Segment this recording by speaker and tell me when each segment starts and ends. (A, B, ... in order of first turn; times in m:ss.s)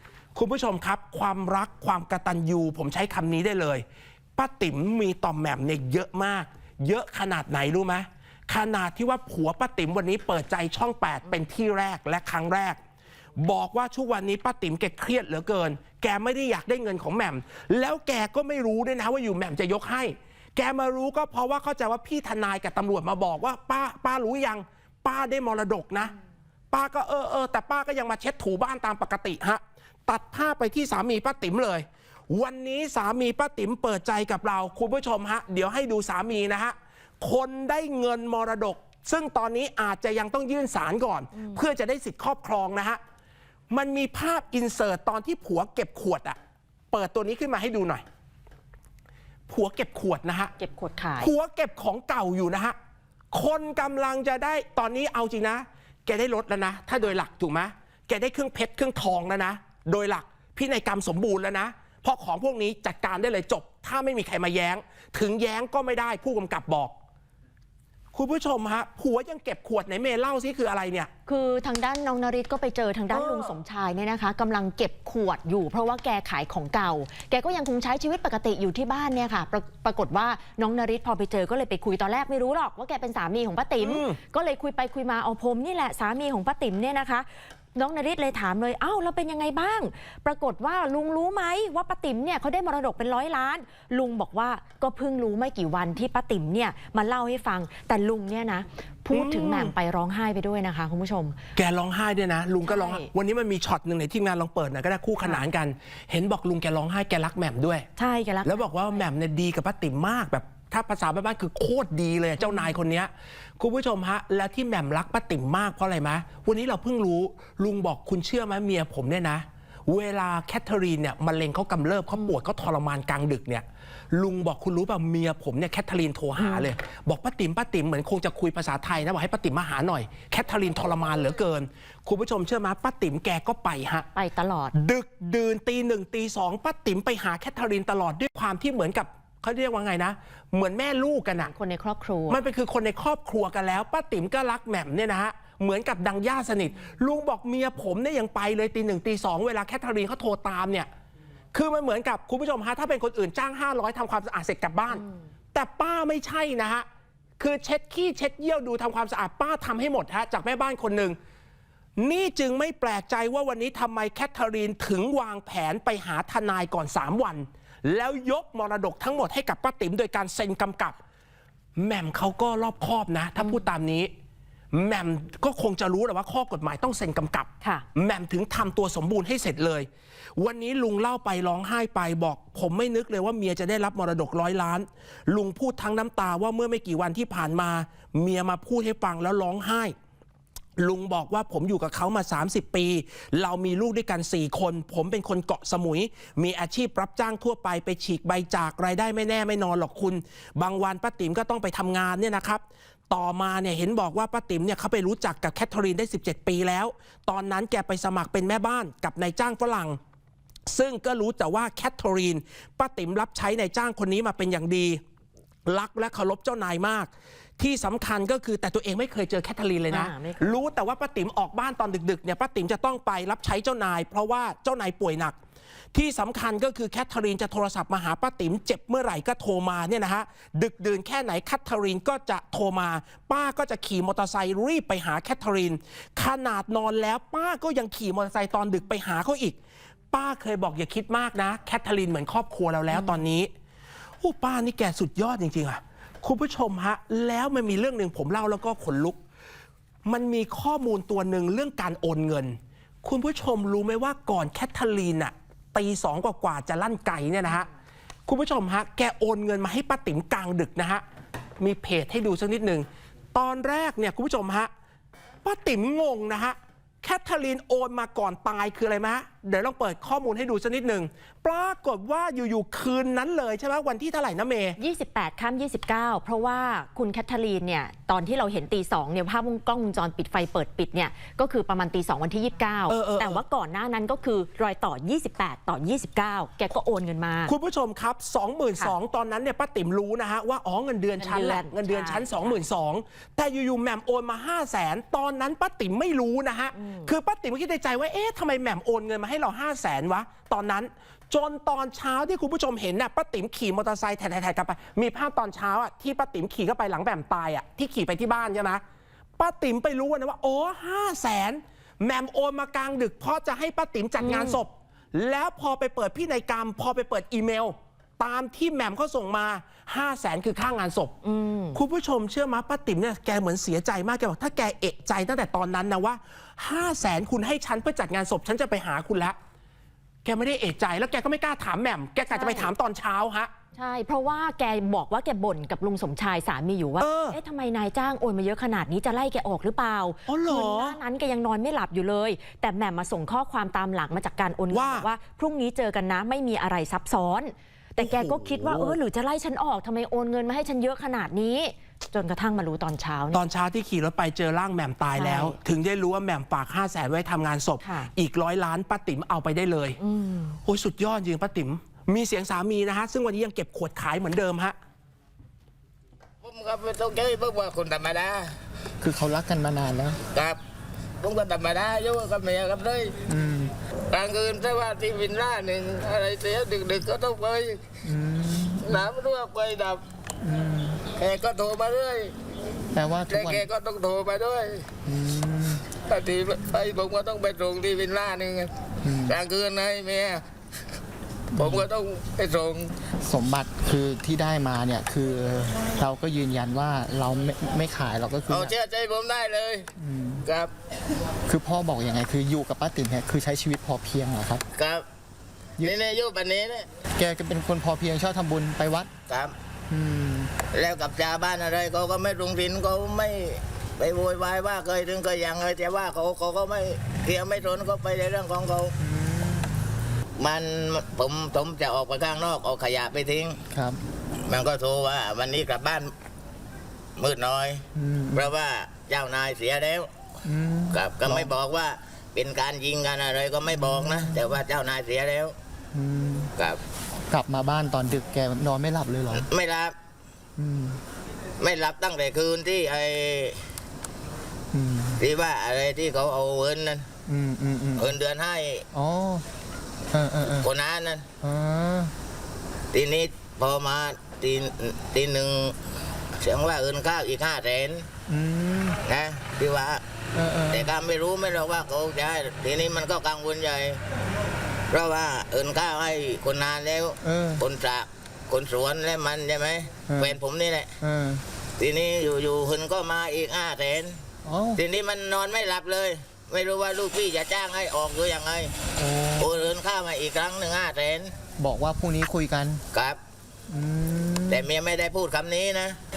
0:00.3-0:03.8 A
0:04.4-0:12.8 A
0:13.4-0:26.1 A
0:26.7-0:43.0 A
0:41.4-0:41.6 B
0:43.7-0:46.4 A
0:46.9-0:48.0 A
0:49.5-0:50.5 A
0:50.6-0:51.3 B
0:51.2-0:52.8 A
0:53.3-1:07.0 A
1:08.1-1:11.1 A
1:11.3-1:41.4 B
1:13.1-1:13.5 A
1:23.8-1:24.2 A
1:39.1-1:39.7 A
1:41.6-1:47.9 A
1:42.6-1:43.1 B
1:48.0-1:49.0 B
1:48.4-2:14.1 A
1:52.4-1:52.7 B
2:06.4-2:06.7 B
2:14.1-2:14.7 B
2:14.7-2:21.5 A
2:21.4-2:22.4 B
2:22.3-2:30.9 A
2:31.5-2:36.8 A
2:37.4-2:41.2 A
2:42.0-2:51.0 A
2:51.8-2:54.1 A
2:53.4-2:53.6 B
2:54.7-3:09.9 A
3:10.8-3:30.0 A
3:30.7-3:35.0 A
3:35.6-3:45.4 A
3:39.9-3:40.6 B
3:45.9-3:59.6 A
4:00.1-4:03.5 A
4:04.2-4:09.2 A
4:10.0-4:17.7 A
4:18.3-4:21.0 A
4:21.6-4:24.7 A
4:25.4-4:34.8 A
4:34.8-4:47.5 B
4:42.9-4:43.4 A
4:47.5-5:08.8 A
4:51.2-4:52.6 B
4:56.8-4:57.1 B
5:09.4-5:21.1 A
5:14.2-5:14.6 B
5:21.2-5:21.8 B
5:21.7-5:29.4 A
5:30.2-5:33.5 A
5:32.3-5:32.7 B
5:33.7-5:53.4 B
5:37.0-5:37.4 A
5:40.3-5:41.0 A
5:44.7-5:45.1 A
5:48.0-5:49.0 A
5:53.3-6:00.0 A
5:55.1-5:55.6 B
5:57.8-5:58.1 B
6:00.0-6:00.6 B
6:00.6-6:04.8 A
6:06.4-6:08.6 C
6:09.0-6:10.2 D
6:10.3-6:10.6 C
6:11.2-6:13.2 C
6:13.3-6:13.7 D
6:14.1-6:17.8 C
6:18.0-6:19.1 D
6:18.8-6:20.0 C
6:20.4-6:21.0 D
6:21.1-6:22.3 C
6:22.9-6:23.7 D
6:23.3-6:24.9 C
6:25.0-6:25.8 D
6:26.0-6:28.7 C
6:29.0-6:29.4 D
6:29.2-6:30.4 C
6:31.5-6:31.9 D
6:31.5-6:32.9 C
6:33.2-6:38.8 D
6:38.5-6:39.9 C
6:40.0-6:40.4 D
6:40.4-6:40.7 C
6:41.5-6:44.6 D
6:44.7-6:45.0 C
6:45.8-6:46.9 C
6:47.1-6:49.1 D
6:49.3-6:49.5 C
6:49.9-6:50.5 D
6:50.7-6:58.9 C
6:59.0-6:59.8 D
7:00.4-7:03.6 C
7:03.7-7:04.0 D
7:04.4-7:06.1 C
7:07.2-7:10.1 C
7:07.9-7:08.5 D
7:10.4-7:11.5 D
7:10.9-7:15.5 C
7:13.7-7:14.4 D
7:15.9-7:16.5 D
7:17.3-7:19.5 D
7:19.5-7:19.9 C
7:20.6-7:21.0 D
7:21.6-7:23.6 C
7:24.7-7:25.2 D
7:25.2-7:27.1 C
7:27.3-7:28.2 D
7:28.0-7:28.8 C
7:28.9-7:29.4 D
7:30.1-7:30.7 D
7:30.6-7:31.3 C
7:31.4-7:32.1 D
7:32.9-7:35.8 C
7:36.4-7:38.1 C
7:38.3-7:39.0 D
7:39.1-7:40.0 C
7:40.3-7:40.9 D
7:40.7-7:44.0 C
7:44.9-7:50.9 C
7:47.2-7:47.6 D
7:50.1-7:50.4 D
7:51.0-7:51.4 D
7:51.8-7:54.2 C
7:54.4-7:54.8 D
7:54.8-7:58.7 C
7:59.0-7:59.7 D
7:59.4-8:01.3 C
8:01.6-8:02.8 D
8:02.9-8:03.2 C
8:03.7-8:04.7 D
8:04.5-8:06.0 C